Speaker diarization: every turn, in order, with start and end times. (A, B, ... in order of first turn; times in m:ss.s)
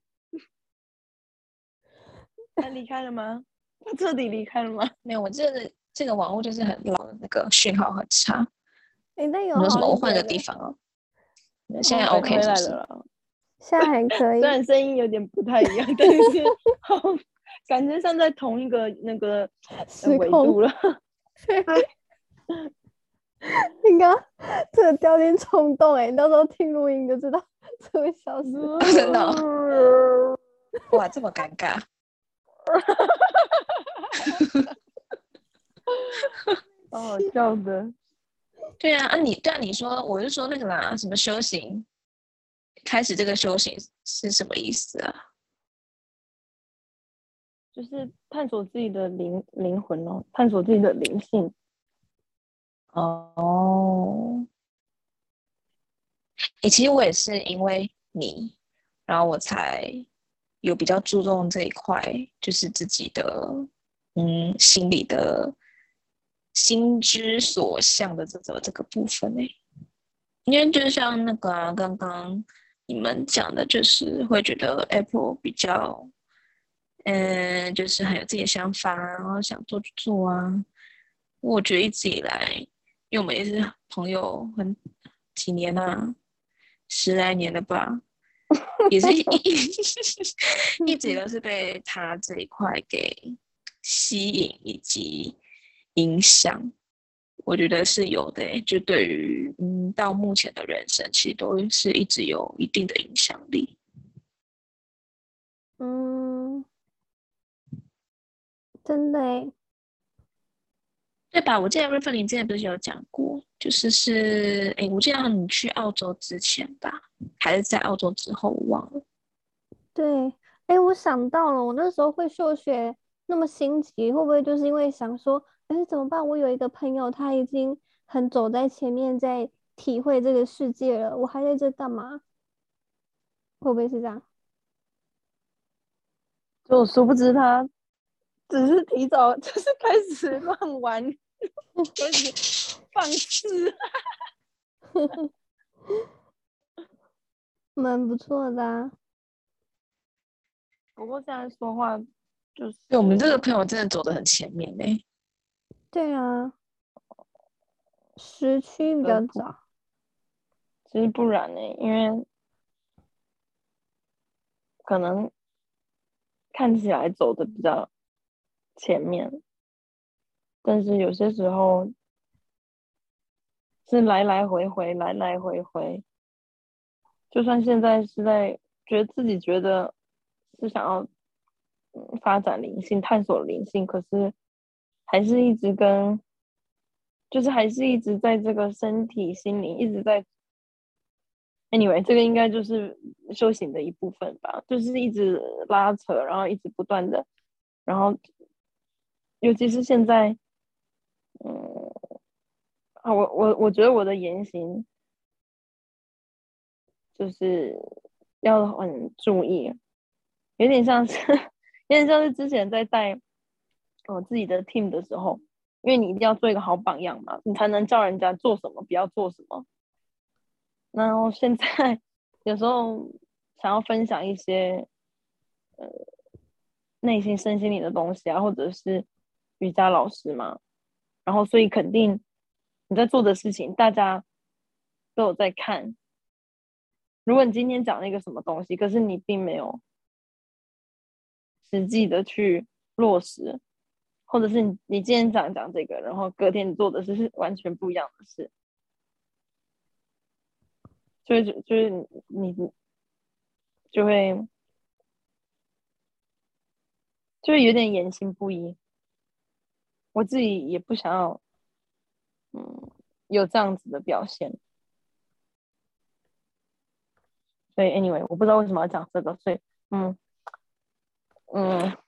0:02.6-0:04.9 A
0:05.0-0:08.5 B
0:09.2-0:10.4 C
0:09.5-0:10.8 B
0:11.7-0:12.7 B
0:11.8-0:12.5 C
0:12.0-0:13.0 A
0:13.6-0:14.6 C
0:14.4-0:19.5 A
0:16.0-0:16.3 C
0:19.8-0:20.6 C
0:20.0-0:20.7 A
0:21.4-0:21.8 C
0:23.4-0:28.8 C
0:28.4-0:30.3 A
0:28.8-0:29.4 B
0:30.9-0:31.8 B
0:32.7-0:33.6 A
0:36.9-0:37.9 A
0:38.8-0:41.8 B
0:42.8-0:45.1 B
0:47.7-0:51.5 A
0:52.9-0:54.2 B
0:56.6-0:58.5 B
0:59.1-1:00.1 B
1:00.6-1:05.5 B
1:06.5-1:09.5 B
1:10.4-1:16.1 B
1:17.0-1:20.6 B
1:21.4-1:24.8 B
1:25.3-1:26.1 B
1:26.9-1:28.0 B
1:28.9-1:29.7 B
1:30.8-1:35.4 B
1:30.8-1:31.1 C
1:36.0-1:36.7 B
1:37.4-1:43.8 B
1:45.8-1:46.6 C
1:48.8-1:49.5 C
1:51.3-1:59.0 B
1:59.9-2:12.2 C
2:13.6-2:14.2 C
2:16.7-2:17.7 A
2:18.5-2:21.1 A
2:21.9-2:23.7 A
2:24.9-2:25.2 C
2:27.8-2:28.9 C
2:31.0-2:32.0 A
2:32.6-2:33.4 A
2:32.9-2:35.0 B
2:35.9-2:36.5 C
2:38.2-2:39.6 C
2:39.0-2:39.4 A
2:40.9-2:42.2 A
2:44.8-2:45.3 A
2:46.5-2:47.9 A
2:48.8-2:49.3 A
2:50.6-2:51.9 A
2:53.9-2:56.0 A
2:57.3-2:59.9 A
3:00.6-3:01.1 A
3:02.0-3:04.3 A
3:05.1-3:06.2 A
3:07.3-3:10.2 A
3:11.7-3:17.2 A
3:17.9-3:18.2 A
3:19.4-3:20.4 A
3:21.4-3:21.9 A
3:23.0-3:24.8 A
3:27.2-3:27.8 A
3:28.4-3:29.7 A
3:30.6-3:31.2 A
3:31.9-3:33.2 A
3:34.1-3:39.6 A
3:40.9-3:44.9 A
3:47.0-3:49.1 A
3:49.6-3:50.6 A
3:51.2-3:52.2 A
3:52.9-3:54.2 A
3:55.2-3:56.0 A
3:57.2-3:59.8 A
4:01.6-4:03.6 A
4:04.3-4:08.5 A
4:11.2-4:12.7 A
4:13.9-4:14.5 A
4:17.4-4:18.8 A
4:20.1-4:21.4 A
4:22.5-4:24.6 A
4:27.8-4:30.2 A
4:31.5-4:31.9 A